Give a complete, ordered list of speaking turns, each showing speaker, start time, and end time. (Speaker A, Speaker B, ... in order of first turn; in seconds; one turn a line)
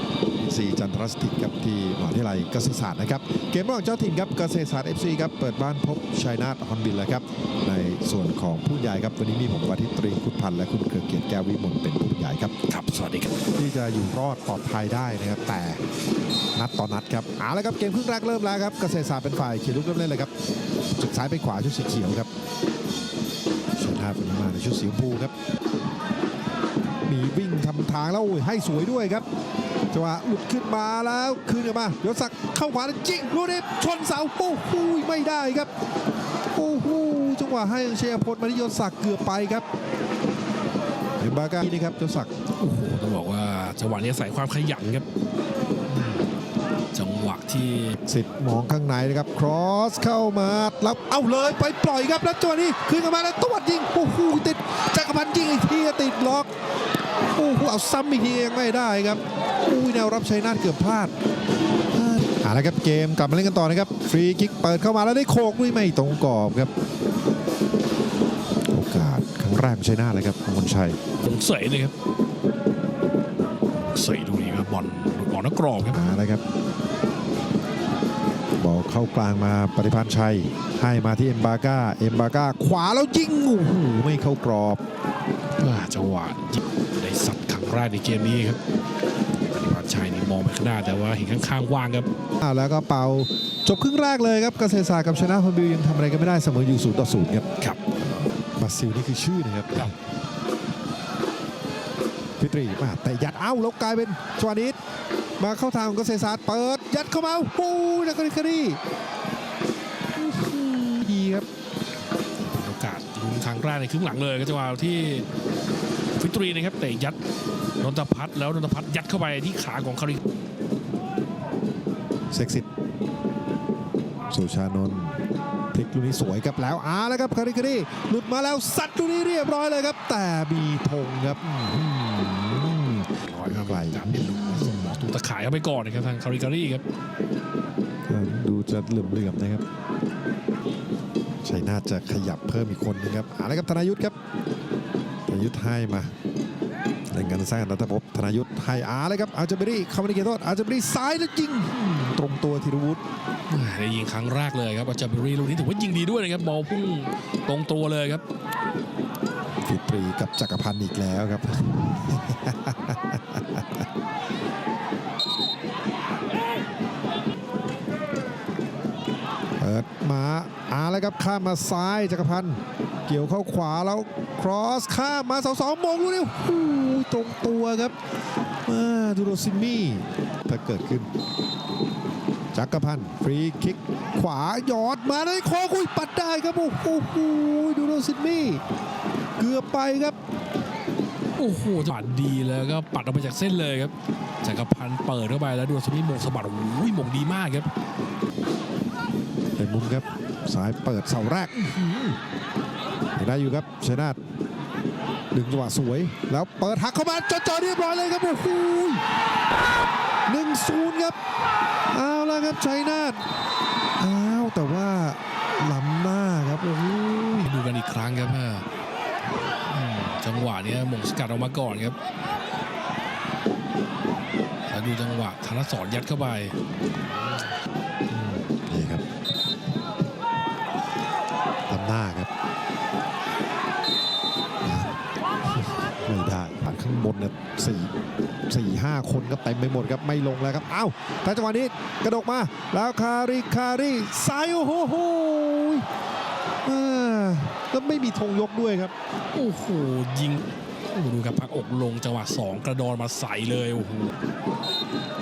Speaker A: 0.4-12.6
Speaker B: 12.7-13.3
Speaker A: 13.5-15.8
Speaker A: 16.5-20.3
Speaker A: 20.9-22.3
Speaker A: 23.8-25.3
Speaker A: 27.1-29.2
Speaker A: 29.9-35.7
Speaker A: 36.5-39.6
Speaker A: 41.2-42.3
Speaker B: 42.6-45.0
Speaker B: 45.9-46.2
Speaker B: 46.9-48.0
Speaker A: 48.0-56.5
Speaker A: 57.3-61.1
Speaker A: 61.9-66.7
Speaker A: 68.7-71.0
Speaker B: 71.2-71.9
Speaker B: 73.9-76.0
Speaker A: 75.9-76.4
Speaker A: 78.6-84.8
Speaker B: 85.6-88.6
Speaker B: 89.5-92.1
Speaker A: 92.4-97.5
Speaker A: 98.5-99.9
Speaker A: 102.4-104.8
Speaker A: 105.4-108.8
Speaker A: 110.1-111.5
Speaker B: 112.4-115.3
Speaker B: 116.2-117.2
Speaker B: 117.8-120.2
Speaker A: 122.3-122.7
Speaker A: 124.3-125.2
Speaker A: 125.7-135.0
Speaker B: 133.1-136.8
Speaker A: 138.1-139.6
Speaker A: 141.4-144.1
Speaker A: 145.3-146.1
Speaker A: 147.1-153.0
Speaker B: 153.5-158.2
Speaker A: 159.6-163.8
Speaker A: 169.6-177.9
Speaker A: 178.7-181.1
Speaker A: 182.5-188.6
Speaker A: 189.4-190.2
Speaker B: 191.3-197.7
Speaker A: 199.6-202.2
Speaker A: 203.2-204.2
Speaker A: 205.3-209.0
Speaker A: 210.3-211.2
Speaker A: 211.9-213.2
Speaker A: 214.0-217.5
Speaker B: 217.4-218.7
Speaker B: 219.7-222.0
Speaker B: 224.7-226.6
Speaker A: 228.1-229.0
Speaker A: 231.7-232.3
Speaker A: 234.6-234.9
Speaker A: 235.5-237.9
Speaker A: 238.5-245.9
Speaker A: 246.6-248.9
Speaker B: 249.3-254.1